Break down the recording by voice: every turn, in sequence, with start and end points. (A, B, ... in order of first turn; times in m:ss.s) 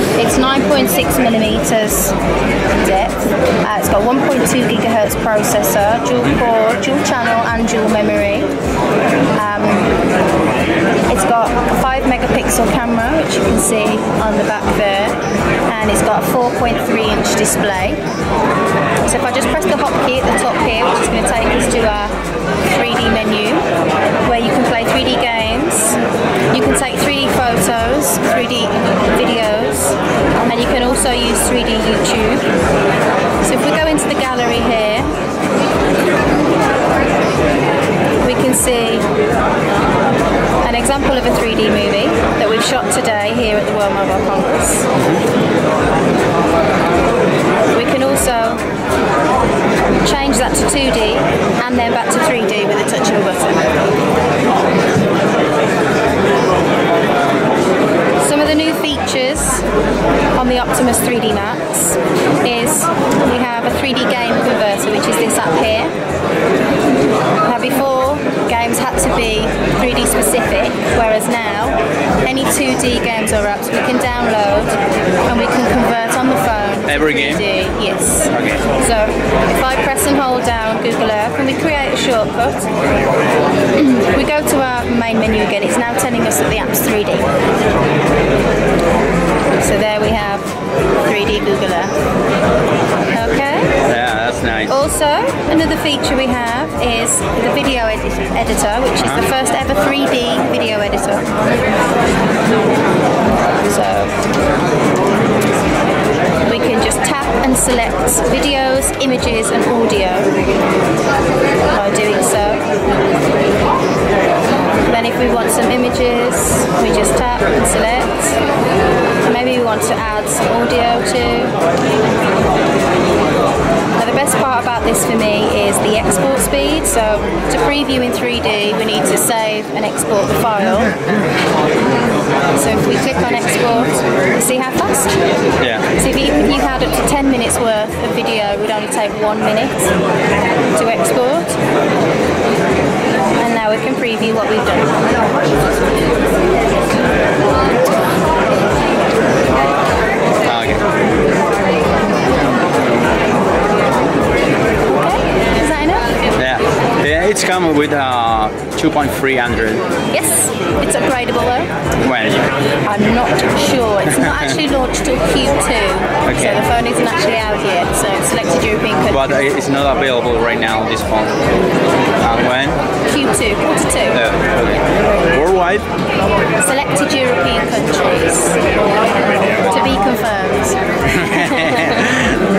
0:00.1-0:02.2 A
0:02.8-0:08.5 A
0:09.3-0:09.9 A
0:11.1-0:18.0 A
0:19.0-0:23.6 A
0:24.2-0:26.0 A
0:26.5-0:32.5 A
0:33.4-0:35.1 A
0:38.2-0:39.1 A
0:40.6-0:44.9 A
0:45.0-0:45.2 B
0:47.7-0:48.6 A
0:50.0-0:53.8 A
0:58.2-0:59.7 A
1:00.3-1:05.9 A
1:07.4-1:22.7 A
1:16.9-1:17.4 B
1:18.3-1:18.6 B
1:23.7-1:27.3 A
1:29.6-1:30.5 A
1:31.0-1:32.0 A
1:33.1-1:33.8 A
1:33.9-1:34.7 B
1:34.7-1:41.3 A
1:43.7-1:44.2 A
1:46.4-1:50.4 A
1:51.7-1:52.7 A
1:54.9-1:58.4 A
1:59.2-2:01.6 A
2:04.0-2:11.0 A
2:12.5-2:15.1 A
2:15.6-2:15.9 B
2:15.9-2:19.9 A
2:20.8-2:21.6 A
2:23.4-2:25.0 A
2:30.4-2:30.8 B
2:34.9-2:36.1 A
2:36.4-2:39.8 B
2:40.1-2:41.7 A
2:42.0-2:42.4 B
2:42.8-2:49.4 A
2:44.1-2:44.5 B
2:46.2-2:46.6 B
2:49.1-2:51.4 B
2:52.2-2:52.8 B
2:53.1-2:54.2 A
2:54.1-2:55.8 B
2:56.6-2:58.6 A
2:59.6-3:02.0 A
3:01.1-3:02.4 B